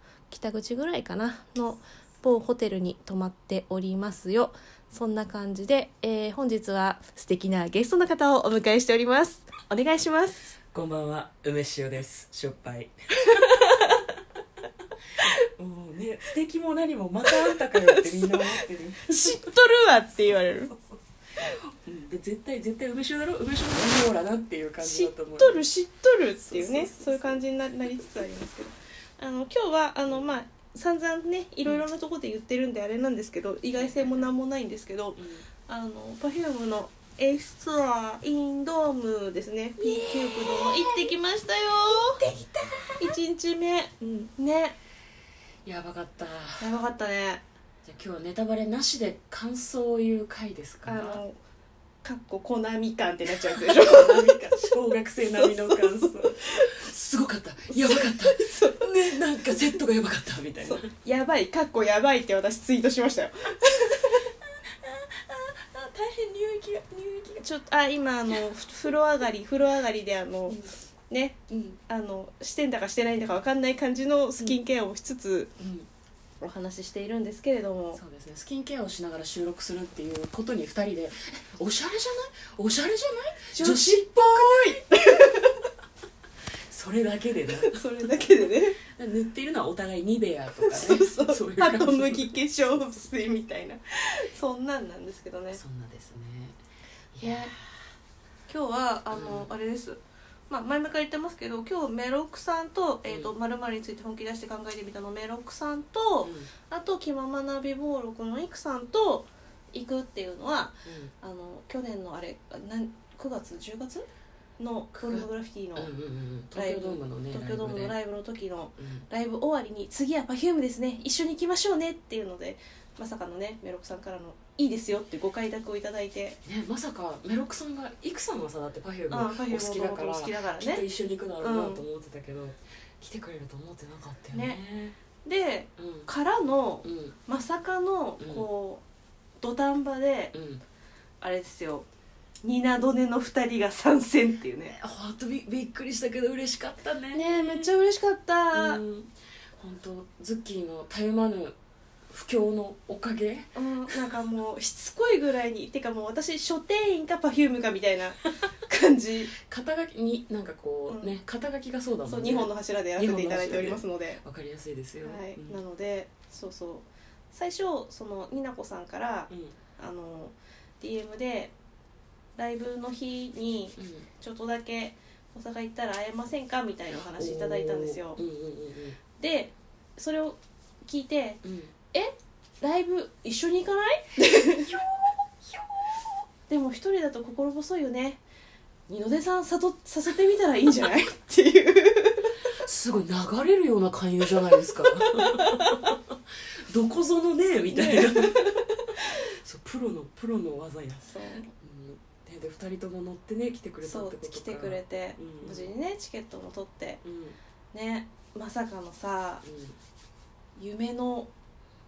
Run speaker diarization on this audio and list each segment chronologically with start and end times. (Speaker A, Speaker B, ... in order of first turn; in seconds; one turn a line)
Speaker A: 0.3-10.5
Speaker B: 10.7-14.0
Speaker B: 15.2-19.4
Speaker A: 17.3-18.5
Speaker A: 19.1-20.7
Speaker B: 21.4-25.6
Speaker A: 24.8-42.2
Speaker B: 26.4-27.4
Speaker B: 30.1-30.3
Speaker B: 33.7-34.2
Speaker B: 35.1-35.5
Speaker B: 42.2-43.0
Speaker A: 43.0-44.8
Speaker B: 45.6-46.7
Speaker A: 46.6-47.4
Speaker B: 47.8-51.2
Speaker A: 50.8-51.4
Speaker A: 52.0-56.3
Speaker B: 53.5-60.9
Speaker A: 57.7-58.8
Speaker A: 59.4-59.6
Speaker A: 60.6-64.3
Speaker B: 64.8-67.4
Speaker A: 67.4-75.5
Speaker B: 71.5-71.8
Speaker B: 75.6-75.9
Speaker A: 76.4-78.0
Speaker B: 77.9-85.2
Speaker A: 83.5-85.6
Speaker B: 86.7-88.3
Speaker A: 87.5-88.8
Speaker B: 88.9-92.5
Speaker A: 90.6-95.6
Speaker B: 95.5-96.6
Speaker B: 97.1-97.5
Speaker A: 97.2-97.5
Speaker A: 98.5-114.1
Speaker B: 99.1-99.5
Speaker B: 103.1-103.3
Speaker B: 106.2-106.5
Speaker B: 110.8-111.1
Speaker A: 114.6-115.9
Speaker B: 114.9-118.0
Speaker A: 116.5-126.4
Speaker B: 118.8-119.0
Speaker B: 126.4-135.0
Speaker A: 129.1-130.8
Speaker A: 131.4-131.8
Speaker A: 134.3-134.6
Speaker A: 135.2-138.8
Speaker B: 135.8-136.1
Speaker B: 136.8-137.2
Speaker B: 138.2-138.4
Speaker A: 139.4-140.3
Speaker B: 140.3-140.6
Speaker A: 141.2-141.9
Speaker A: 142.4-144.8
Speaker B: 144.7-147.7
Speaker A: 147.1-148.8
Speaker B: 148.5-151.5
Speaker B: 152.1-154.0
Speaker A: 153.5-159.3
Speaker B: 159.4-165.6
Speaker A: 160.9-161.1
Speaker A: 162.1-164.2
Speaker A: 165.0-171.5
Speaker B: 169.3-169.6
Speaker A: 172.4-178.2
Speaker B: 173.8-174.1
Speaker B: 177.2-179.0
Speaker A: 179.2-181.4
Speaker B: 181.4-181.7
Speaker A: 181.9-184.8
Speaker B: 184.6-185.6
Speaker A: 186.5-188.2
Speaker A: 188.9-192.3
Speaker B: 192.6-196.1
Speaker A: 194.8-195.9
Speaker B: 196.7-205.7
Speaker A: 197.7-198.7
Speaker A: 201.0-201.5
Speaker A: 203.8-207.0
Speaker B: 207.0-207.4
Speaker A: 207.7-209.4
Speaker B: 209.4-209.8
Speaker A: 210.6-211.3